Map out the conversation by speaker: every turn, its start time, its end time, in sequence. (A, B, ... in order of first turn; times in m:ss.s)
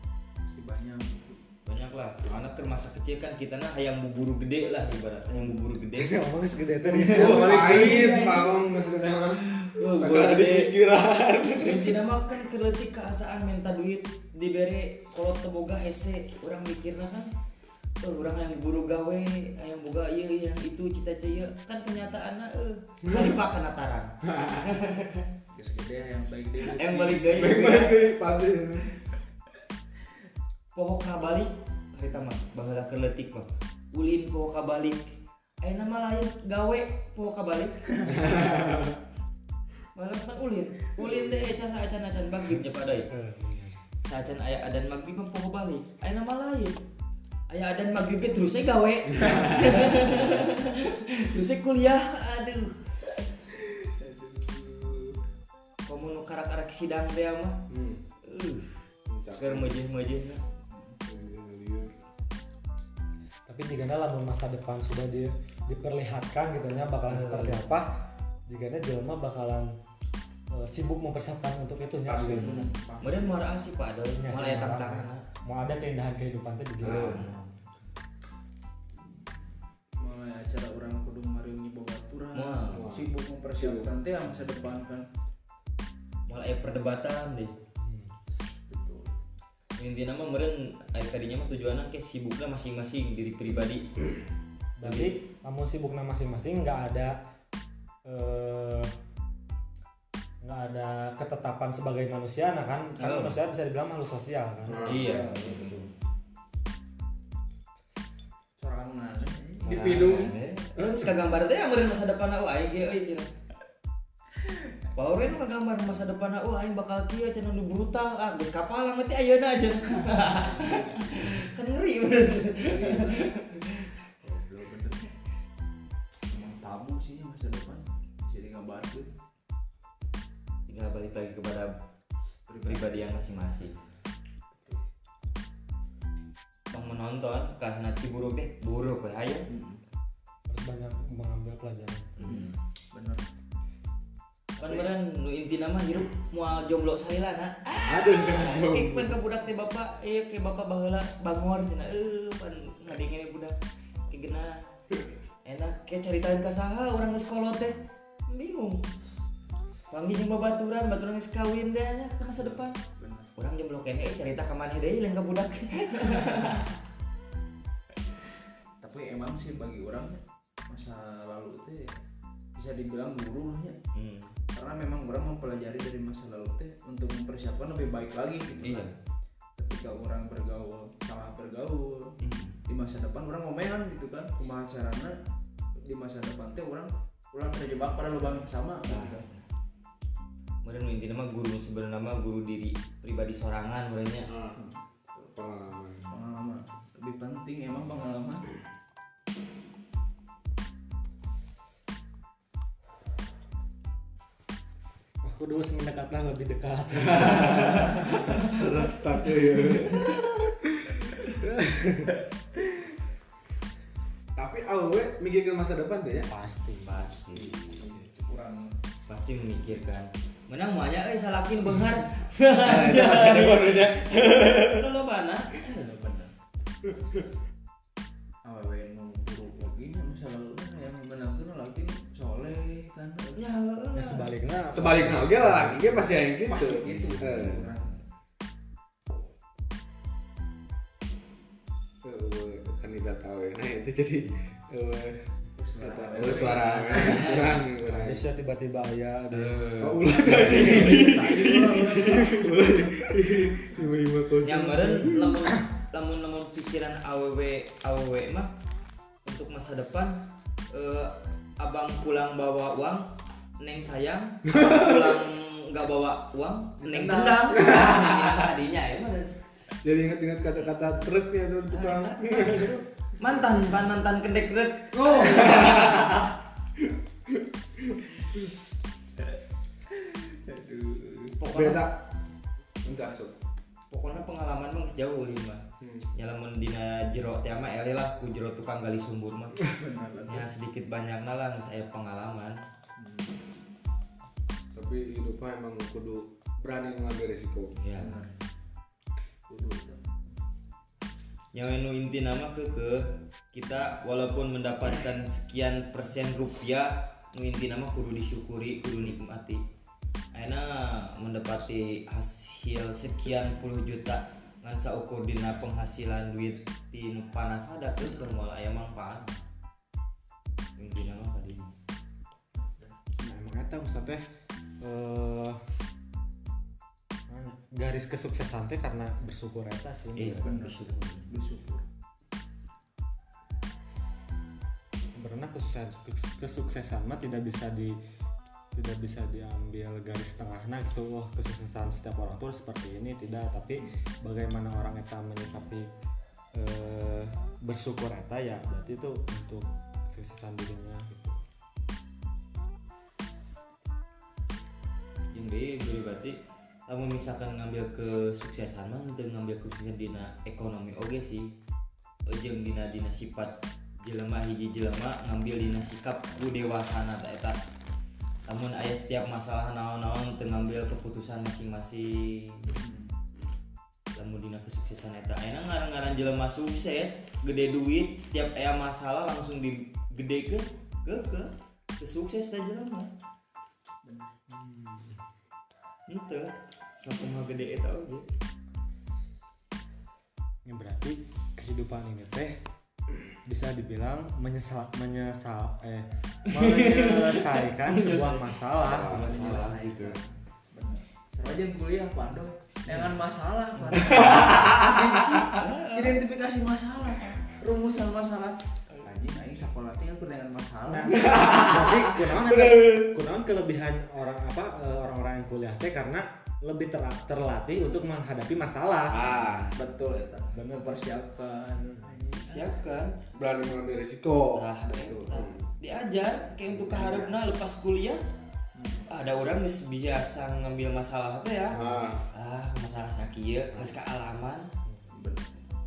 0:00.4-0:01.4 A
0:01.7-0:06.2 B
0:06.0-0:07.4 C
0:06.8-0:08.5 B
0:07.1-0:12.0 D
0:07.2-0:08.7 A
0:09.7-0:10.7 B
0:11.6-0:17.3 B
0:18.0-0:25.2 B
0:24.3-0:24.6 D
0:25.5-0:27.7 A
0:26.7-0:28.1 B
0:27.3-0:29.0 D
0:30.8-0:37.9 B
0:38.0-0:39.0 D
0:40.0-0:43.1 B
0:43.1-0:43.8 C
0:44.1-0:46.8 B
0:47.5-0:52.9 B
0:49.2-0:50.1 D
0:53.9-0:55.1 D
0:55.9-0:57.6 B
0:57.7-0:58.0 D
0:58.2-0:58.8 B
0:59.1-0:59.8 D
0:59.4-1:00.4 B
1:00.7-1:01.0 A
1:01.1-1:01.9 D
1:03.5-1:09.8 C
1:07.1-1:07.7 B
1:10.5-1:12.7 C
1:12.1-1:12.7 D
1:12.4-1:13.4 A
1:13.0-1:15.2 B
1:14.2-1:17.3 C
1:16.8-1:17.4 B
1:16.8-1:17.4 D
1:20.0-1:25.1 A
1:22.3-1:22.9 B
1:22.7-1:23.9 D
1:26.3-1:27.5 B
1:27.8-1:28.1 C
1:28.7-1:29.2 A
1:29.8-1:34.0 B
1:34.8-1:37.2 C
1:34.8-1:35.1 B
1:38.0-1:38.9 C
1:40.4-1:45.1 C
1:43.0-1:43.4 B
1:44.7-1:45.1 D
1:44.8-1:45.4 B
1:44.8-1:45.9 A
1:48.6-1:50.4 A
1:49.6-1:53.3 B
1:50.8-1:51.1 D
1:55.0-2:03.9 B
2:00.1-2:01.4 A
2:02.7-2:03.2 A
2:04.2-2:05.1 A
2:06.3-2:09.1 A
2:10.7-2:11.7 B
2:12.5-2:13.1 A
2:12.6-2:13.8 B
2:14.5-2:14.8 A
2:16.7-2:19.5 B
2:19.5-2:19.8 A
2:20.5-2:22.2 C
2:22.2-2:23.2 A
2:22.2-2:22.4 B
2:24.6-2:24.9 A
2:24.6-2:33.6 B
2:27.8-2:29.1 D
2:34.1-2:34.6 B
2:35.4-2:37.8 B
2:38.3-2:38.8 B
2:39.9-2:42.8 B
2:42.4-2:43.3 A
2:43.4-2:46.7 B
2:48.8-2:52.0 A
2:52.6-2:53.8 A
2:53.9-2:54.3 B
2:54.5-2:58.9 A
2:58.6-2:58.9 B
2:59.6-3:05.2 A
3:02.2-3:02.6 B
3:05.8-3:09.2 A
3:08.9-3:09.4 B
3:10.6-3:14.3 B
3:14.3-3:14.6 D
3:14.5-3:15.3 A
3:15.4-3:16.1 D
3:16.1-3:18.5 A
3:25.2-3:27.9 C
3:27.0-3:30.5 D
3:31.1-3:31.5 D
3:31.4-3:32.1 C
3:34.4-3:36.3 D
3:36.3-3:37.0 C
3:36.8-3:37.8 B
3:37.3-3:38.7 A
3:39.1-3:45.6 B
3:42.6-3:44.9 D
3:45.6-3:46.3 A
3:48.4-3:53.4 A
3:53.4-3:54.3 B
3:53.9-3:56.0 C
3:54.7-3:57.7 D
3:56.4-3:58.0 A
4:02.0-4:05.3 D
4:05.6-4:07.5 A
4:05.8-4:08.2 D
4:06.4-4:07.6 B
4:07.8-4:09.8 C
4:09.3-4:12.4 B
4:09.8-4:15.5 D
4:10.2-4:12.6 A
4:14.4-4:18.5 B
4:19.3-4:20.2 B
4:20.7-4:23.1 B
4:23.6-4:29.4 B
4:24.5-4:25.2 D
4:26.8-4:27.8 A
4:27.5-4:28.5 D
4:29.8-4:32.7 D
4:31.7-4:36.2 B
4:34.9-4:38.4 D
4:40.0-4:41.3 A
4:41.4-4:41.9 B
4:41.4-4:42.1 D
4:42.8-4:43.4 D
4:43.9-4:45.6 B
4:45.8-4:46.1 D
4:46.1-4:49.6 B
4:49.6-4:50.5 A
4:50.3-4:52.6 B
4:53.0-4:53.4 A
4:54.7-4:57.8 D
4:57.8-4:58.3 B
4:58.0-4:58.4 A
4:59.5-5:00.0 A
5:01.5-5:09.6 B
5:10.3-5:19.3 B
5:20.8-5:21.7 B
5:22.6-5:23.0 A
5:23.2-5:24.2 C
5:24.8-5:25.6 C
5:27.3-5:30.5 C
5:30.2-5:31.3 B
5:30.3-5:31.9 A
5:35.2-5:38.0 C
5:38.7-5:45.9 C
5:46.6-5:51.4 C
5:55.3-6:01.5 B
6:02.3-6:07.6 B
6:08.5-6:12.7 B
6:12.7-6:13.1 A
6:14.2-6:23.1 B
6:24.0-6:24.4 A
6:24.5-6:25.1 C
6:26.1-6:28.3 B
6:30.7-6:32.6 C
6:33.4-6:40.0 C
6:36.5-6:40.2 B
6:38.8-6:39.3 D
6:39.1-6:51.3 A
6:43.9-6:44.6 B
6:44.0-6:45.6 D
6:45.5-6:46.2 B
6:50.9-6:59.4 C
6:51.1-6:53.2 D
6:59.1-6:59.8 D
6:59.7-7:02.8 A
7:00.5-7:01.0 C
7:01.8-7:02.1 C
7:02.4-7:03.2 B
7:03.3-7:04.6 D
7:04.6-7:08.2 B
7:04.9-7:05.2 A
7:05.2-7:05.6 D
7:06.9-7:07.3 D
7:08.8-7:09.1 A
7:09.1-7:11.8 B
7:11.7-7:12.3 D
7:12.3-7:14.7 B
7:14.8-7:15.1 C
7:15.1-7:15.6 A